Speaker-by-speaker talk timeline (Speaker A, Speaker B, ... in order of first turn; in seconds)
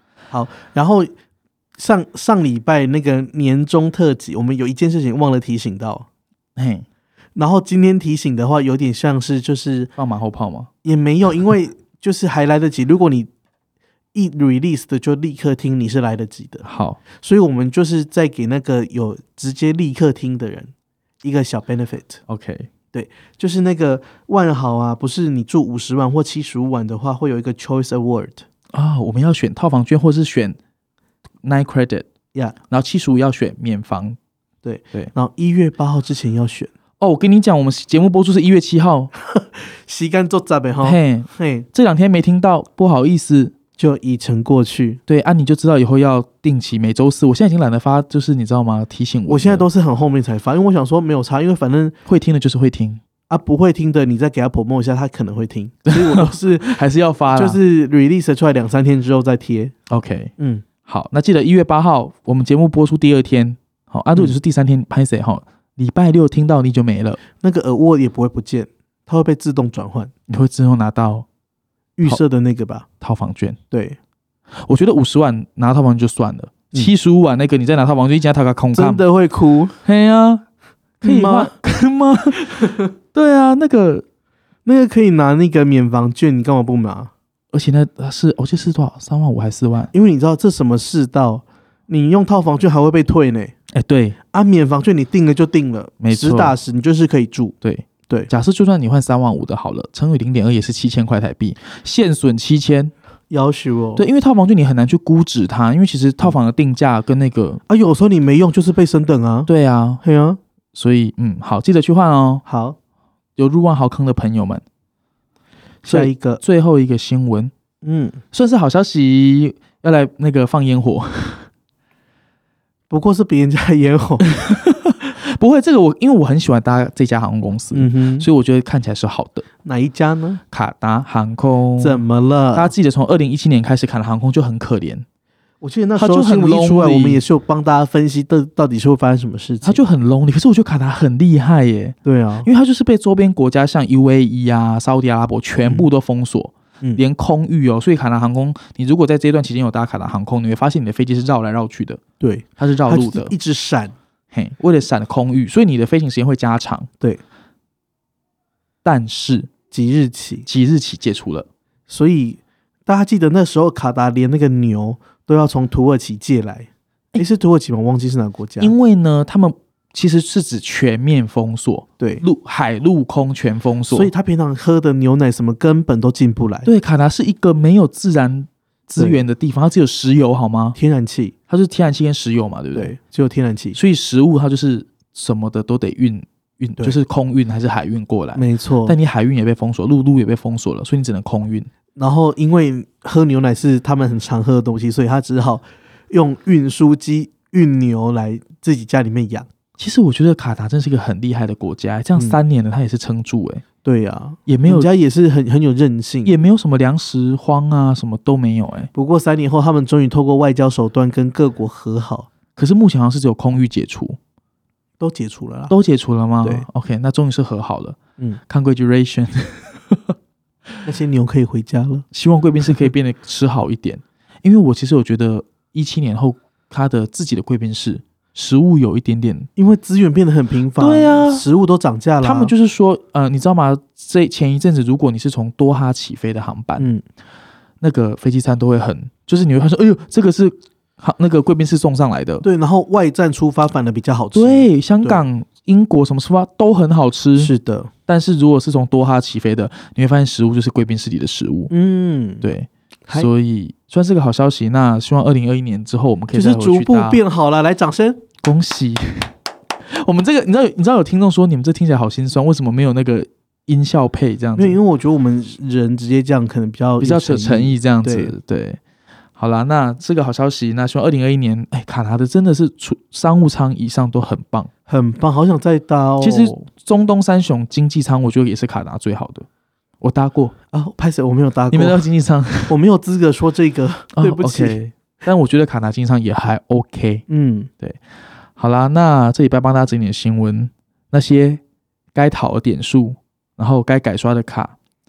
Speaker A: 0.3-1.1, 1.8-6.0, 7.4-9.9, 10.8-13.3, 14.1-16.6, 17.2-20.7, 21.2-22.2, 22.9-28.4, 34.6-36.7, 39.4-41.7, 43.8-45.0, 49.3-52.0, 53.3-56.8, 57.4-59.7, 60.4-60.6, 67.4-70.1, 72.0-72.9, 73.7-74.0, 78.7-79.8, 81.0-81.5, 84.6-87.1, 89.9-93.5, 94.3-97.5, 103.3-104.0, 107.7-109.5, 110.0-110.4, 112.5-112.8, 115.8-116.4, 117.8-118.2, 122.9-124.2, 127.7-128.3, 129.6-130.4, 131.8-132.7, 135.6-139.8, 142.0-142.5, 152.2-153.9, 159.7-160.5, 161.9-168.7, 173.9-176.7, 179.0-179.2, 180.7-181.3, 182.7-183.8, 188.3-189.0, 191.9-199.5, 203.8-206.3, 208.9-212.3, 215.0-215.7, 220.8-222.0, 229.6-232.5, 236.8-237.0, 242.4-245.2, 247.4-247.9, 251.7-252.4, 256.3-258.2, 264.6-268.3, 274.9-276.6, 280.7-282.0, 282.7-284.8, 287.3-287.7
Speaker B: 6.5-6.8, 10.0-10.7, 16.6-17.0, 22.3-22.7, 28.7-30.6, 31.4-32.1, 32.7-34.2, 37.0-39.1, 40.8-43.5, 45.1-49.6, 52.1-53.0, 55.9-57.6, 59.9-60.3, 60.9-67.2, 70.3-71.2, 73.0-73.6, 74.6-79.0, 79.8-80.4, 81.0-84.0, 87.5-89.9, 93.7-94.2, 96.0-96.5, 97.6-102.9, 104.0-107.6, 109.5-110.0, 110.7-112.4, 113.4-114.6, 115.9-117.5, 118.3-121.5, 124.2-129.4, 130.5-132.0, 132.5-135.0, 136.0-137.2, 139.6-152.0, 152.6-153.3, 154.3-156.9, 158.8-159.5, 160.5-161.5, 168.6-174.1, 176.6-180.8, 181.5-182.9, 183.8-191.7, 199.8-203.6, 204.5-204.9, 206.2-208.9, 212.6-214.2, 215.7-218.0, 218.5-220.1, 222.1-229.5, 230.8-231.4, 232.2-236.9, 237.8-242.4, 244.3-247.5, 248.1-251.7, 252.4-257.2, 258.4-259.3, 259.9-264.8, 267.0-268.8, 269.4-274.7, 276.2-279.4, 280.0-280.5, 281.7-282.7, 284.1-287.2, 288.6-291.6, 292.1-294.7